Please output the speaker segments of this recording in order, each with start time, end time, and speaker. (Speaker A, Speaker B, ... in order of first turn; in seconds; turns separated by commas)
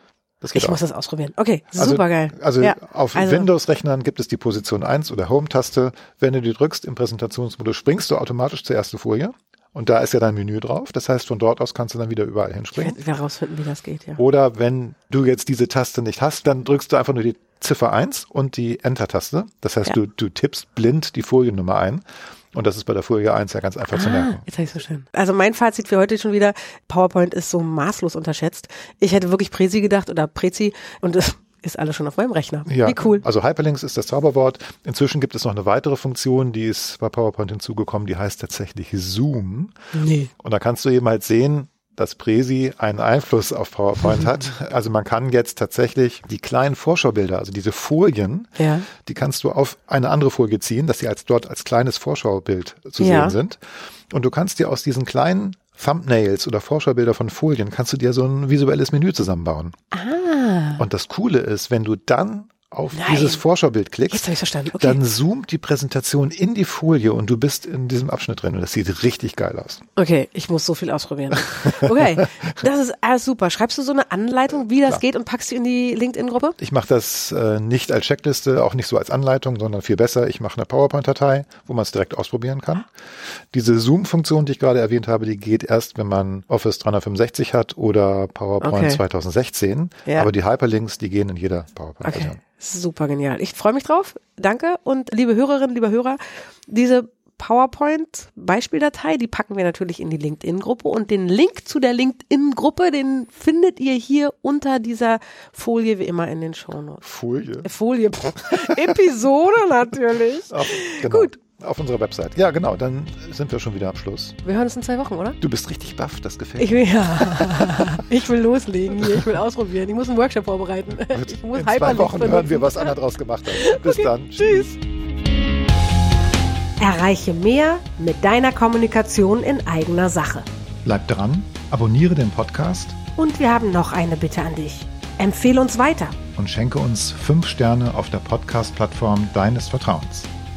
Speaker A: 0.4-0.8, Speaker B: 0.5-3.5, Speaker A: 1.8-13.0, Speaker B: 12.7-14.2, Speaker A: 14.2-24.4, Speaker B: 23.9-33.2, Speaker A: 32.7-39.7, Speaker B: 39.9-40.3, Speaker A: 40.4-53.6, Speaker B: 48.6-48.9, Speaker B: 53.0-53.4, Speaker A: 54.1-59.7, Speaker B: 59.9-60.8, Speaker A: 60.8-69.8, Speaker B: 62.9-63.4, Speaker B: 64.1-65.0, Speaker B: 70.0-76.6, Speaker A: 71.7-72.4, Speaker A: 76.6-82.9, Speaker A: 83.5-92.4, Speaker B: 88.6-89.0, Speaker B: 92.0-107.0, Speaker A: 107.0-107.7, Speaker B: 107.6-111.4, Speaker A: 108.6-108.8, Speaker A: 110.5-114.4, Speaker B: 114.4-115.4, Speaker A: 115.4-118.0, Speaker B: 116.6-122.9, Speaker A: 120.9-124.8, Speaker B: 123.5-124.7, Speaker B: 126.8-130.4, Speaker A: 130.8-133.0, Speaker B: 133.2-136.2, Speaker A: 136.4-140.3